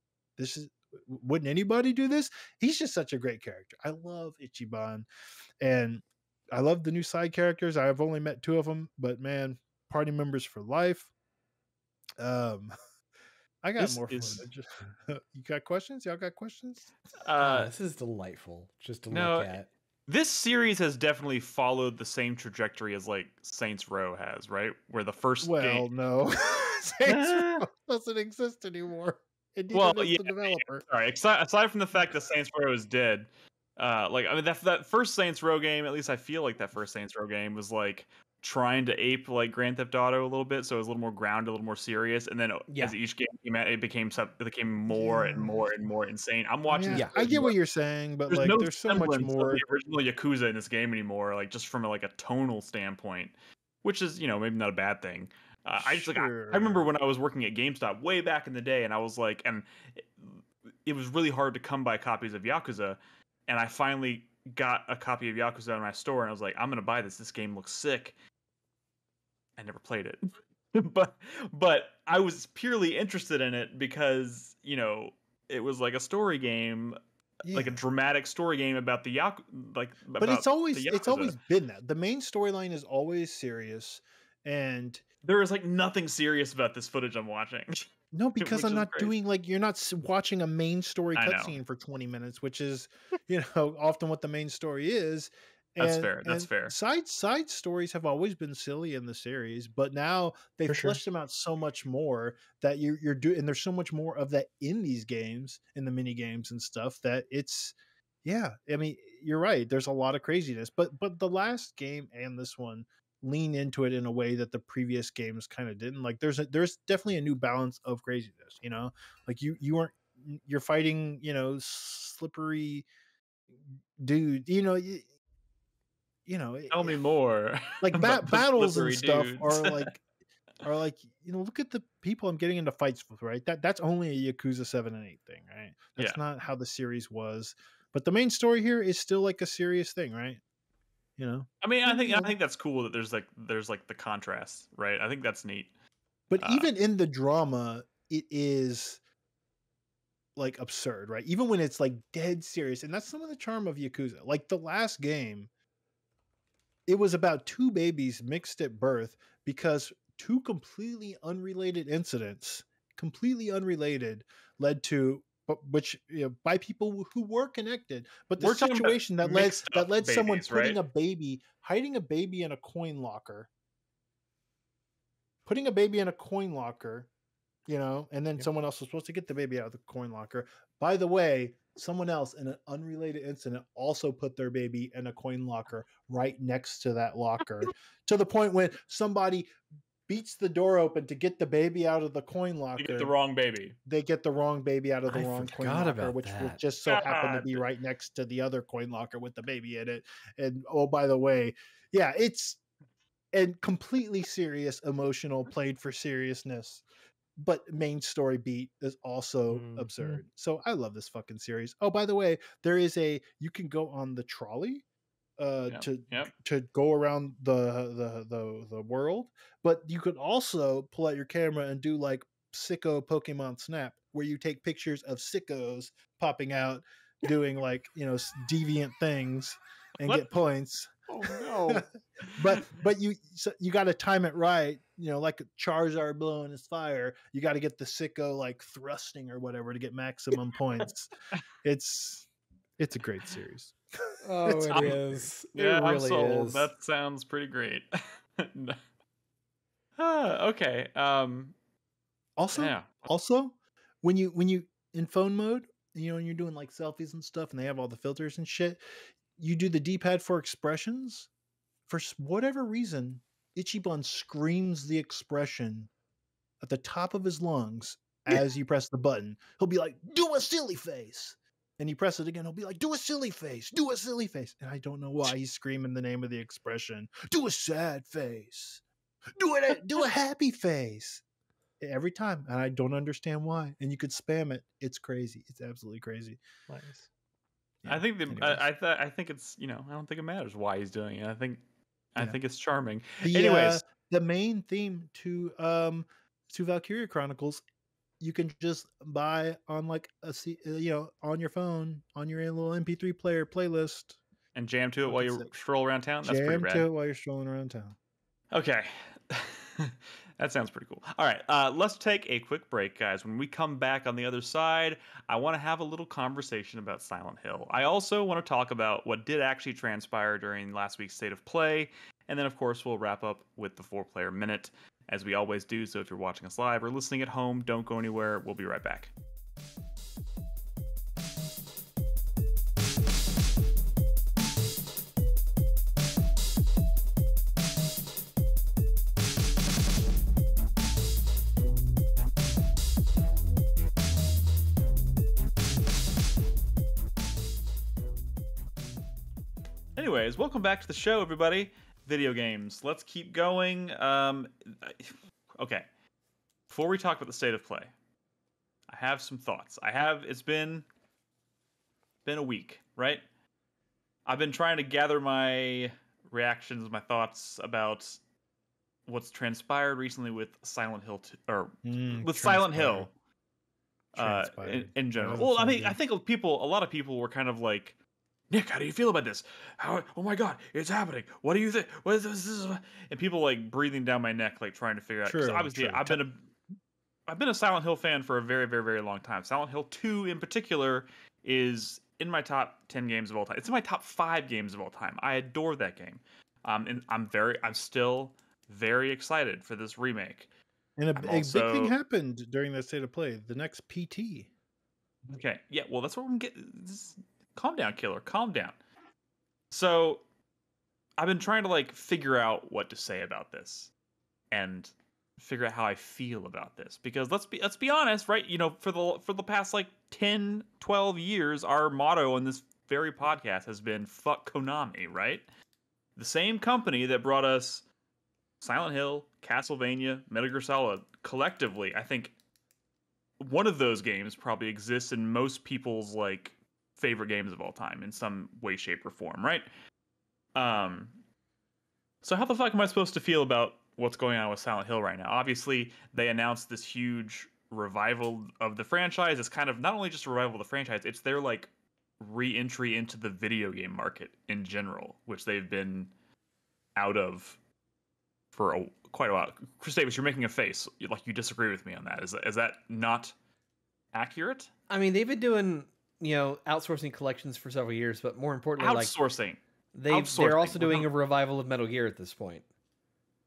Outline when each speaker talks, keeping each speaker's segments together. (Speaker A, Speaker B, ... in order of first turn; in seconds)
Speaker A: 0.4-5.1, 5.6-11.1, 12.2-12.7, 13.6-16.9, 25.4-30.8, 44.9-45.7, 46.7-49.6, 55.8-56.9, 77.5-77.8, 80.2-85.0, 88.1-122.9, 124.0-125.0, 126.2-127.0, 127.8-130.0, 130.6-140.4, 141.2-142.3, 146.3-149.0, 150.3-155.5, 156.9-173.5, 175.4-177.1, 177.7-189.5, 190.1-193.1, 193.8-202.6, 203.3-206.8, 207.4-214.8, 215.4-230.9, 231.6-241.1, 241.6-242.3, 242.8-243.8, 244.4-245.0, 252.4-258.8, 259.4-261.3, 261.9-265.9, 266.6-278.8, 279.3-281.2, 281.8-286.4, 287.8-288.6, 293.2-297.6, 298.2-304.2, 305.1-305.5, 306.2-307.9, 371.8-373.1, 374.1-376.0, 385.2-386.2, 401.0-404.5
Speaker B: 13.8-14.5, 17.2-17.7, 19.1-19.5, 20.1-25.8, 29.7-47.5, 48.3-68.2, 69.6-70.2, 70.7-81.4, 85.2-87.8, 88.4-89.1, 91.1-91.6, 95.8-96.7, 126.7-129.9, 141.6-145.7, 146.4-146.7, 168.4-170.8, 192.8-193.8, 196.8-197.6, 215.7-216.3, 244.7-245.0, 245.5-247.9, 248.4-248.8, 250.0-251.5, 252.5-253.1, 287.9-291.6, 292.1-293.8, 304.5-306.9, 308.5-329.1, 349.9-355.9, 356.7-357.9, 358.9-360.9, 362.2-363.2, 364.2-368.2, 369.1-373.1, 374.1-377.9, 378.5-386.4, 387.3-400.5, 401.2-401.9, 405.3-408.8, 409.7-410.2, 411.2-413.9, 414.5-425.4, 426.1-427.8, 428.6-432.3, 433.4-439.7, 440.5-441.2, 442.2-456.1, 456.9-457.6, 458.5-463.3, 464.1-464.7, 468.8-471.1
Speaker C: 17.4-19.7, 42.7-42.9, 46.9-47.2, 195.1-196.6, 231.1-231.8, 244.2-246.7, 464.9-469.1, 469.9-472.6
Speaker D: 27.1-27.6, 100.7-101.0, 209.5-210.2, 286.7-287.1